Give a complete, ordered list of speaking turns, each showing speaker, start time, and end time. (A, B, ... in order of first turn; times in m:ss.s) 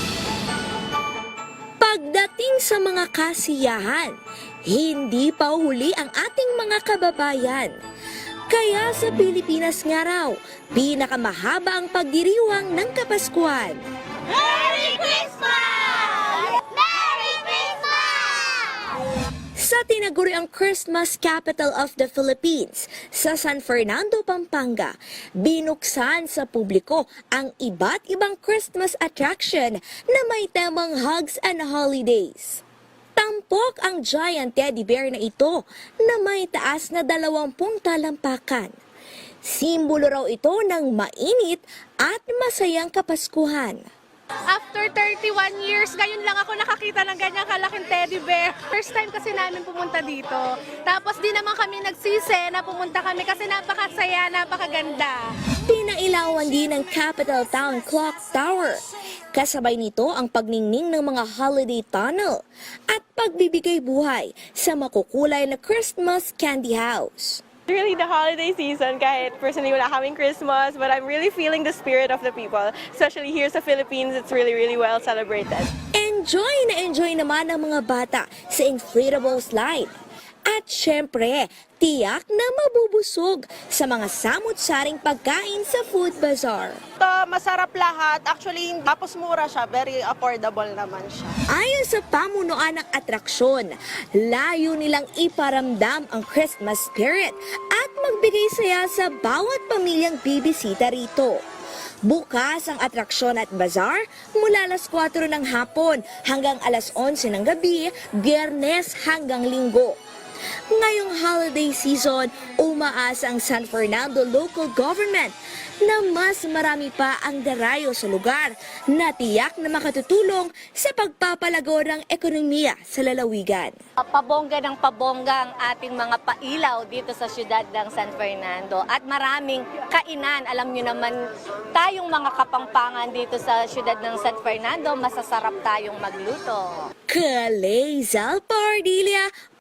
0:01.8-0:04.1 A
0:04.7-0:07.7 A
0:08.5-0:13.8 A
0:19.6-0:32.6 A
0:33.2-0:38.8 A
0:39.4-0:43.8 A
0:44.5-0:55.2 B
0:55.7-0:58.8 A
0:59.3-1:07.4 A
1:07.7-1:15.7 C
1:16.0-1:19.9 A
1:20.5-1:26.8 A
1:27.0-1:31.4 D
1:31.5-1:41.4 A
1:42.0-1:50.0 A
1:50.7-2:03.8 A
2:04.0-2:11.2 E
2:11.8-2:16.9 E
2:17.1-2:19.3 A